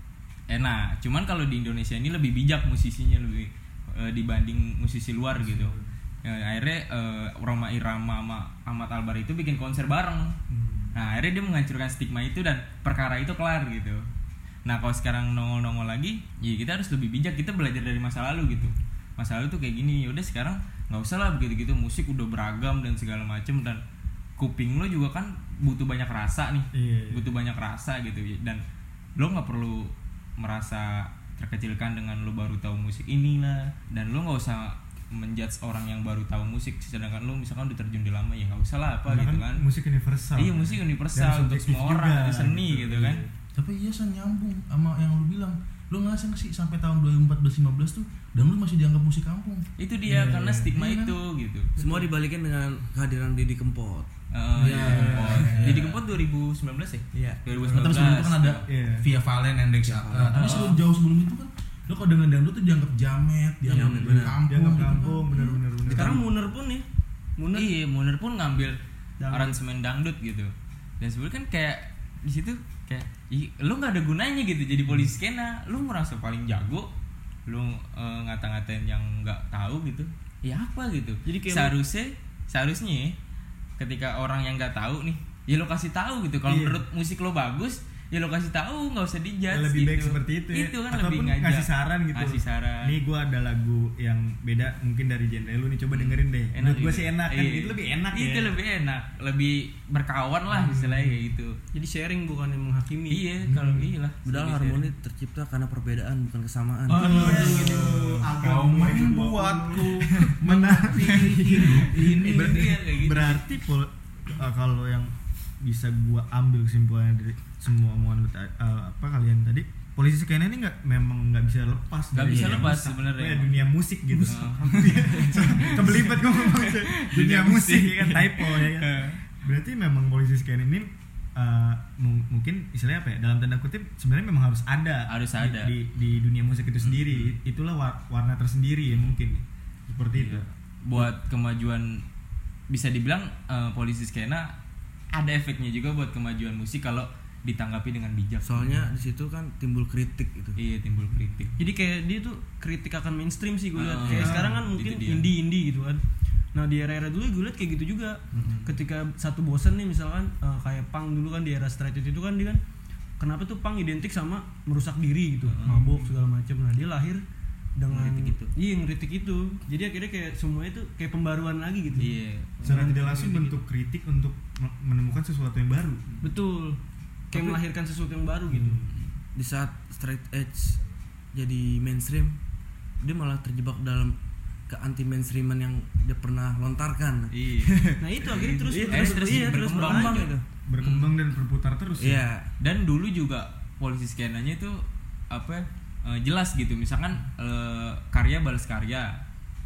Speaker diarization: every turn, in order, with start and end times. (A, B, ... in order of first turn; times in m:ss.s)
0:00.5-0:10.3 A
0:05.4-0:05.9 B
0:10.5-0:11.0 B
0:10.9-0:14.0 A
0:14.6-0:23.8 A
0:24.4-0:28.6 A
0:26.7-0:27.3 B
0:29.2-0:39.6 A
0:39.1-0:43.3 B
0:40.4-0:43.2 A
0:43.6-0:49.6 C
0:49.8-0:51.7 A
0:50.1-0:50.7 B
0:50.8-0:51.2 C
0:51.8-0:52.1 D
0:51.8-0:54.1 E
0:54.3-0:58.6 A
0:54.6-0:56.0 C
0:54.7-0:55.8 B
0:57.1-0:57.4 E
0:57.6-1:05.1 C
0:58.7-0:59.1 B
0:59.8-1:00.8 E
1:00.3-1:00.8 A
1:03.7-1:04.4 E
1:04.5-1:06.2 B
1:04.8-1:06.8 D
1:07.4-1:07.7 D
1:07.5-1:08.8 A
1:09.2-1:09.6 D
1:09.3-1:16.9 A
1:17.5-1:23.1 A
1:21.2-1:21.7 D
1:23.8-1:33.0 A
1:26.5-1:26.8 B
1:29.5-1:38.6 B
1:35.9-1:41.6 A
1:40.5-1:41.2 B
1:41.7-1:43.2 D
1:43.1-1:44.9 A
1:43.5-1:43.9 B
1:44.2-1:47.6 E
1:46.9-1:52.8 C
1:47.0-1:51.3 B
1:51.1-1:51.6 D
1:51.1-1:53.5 A
1:52.3-2:21.1 B
2:02.1-2:03.6 A
2:02.3-2:02.7 E
2:04.2-2:09.2 A
2:04.9-2:05.4 D
2:15.1-2:15.7 A
2:16.8-2:17.3 A
2:20.1-2:22.0 A
2:22.7-2:24.5 A
2:25.1-2:28.8 A
2:28.4-2:30.6 E
2:30.6-2:31.6 A
2:31.6-2:36.0 D
2:33.8-2:35.3 A
2:34.2-2:34.6 B
2:36.5-2:42.6 D
2:38.3-2:38.7 A
2:43.2-2:47.2 D
2:45.5-2:45.8 A
2:45.6-2:46.1 B
2:47.8-2:53.6 D
2:47.9-2:48.5 A
2:52.0-2:52.9 A
2:52.6-2:56.0 B
2:56.2-2:56.8 D
2:57.3-2:58.8 D
2:57.3-2:57.6 A
2:58.5-2:58.9 B
2:59.4-3:02.4 E
3:03.0-3:04.2 E
3:04.7-3:10.4 E
3:07.3-3:11.1 A
3:08.0-3:10.3 D
3:10.7-3:12.2 B
3:12.0-3:12.5 E
3:12.6-3:14.8 A
3:15.3-3:19.1 A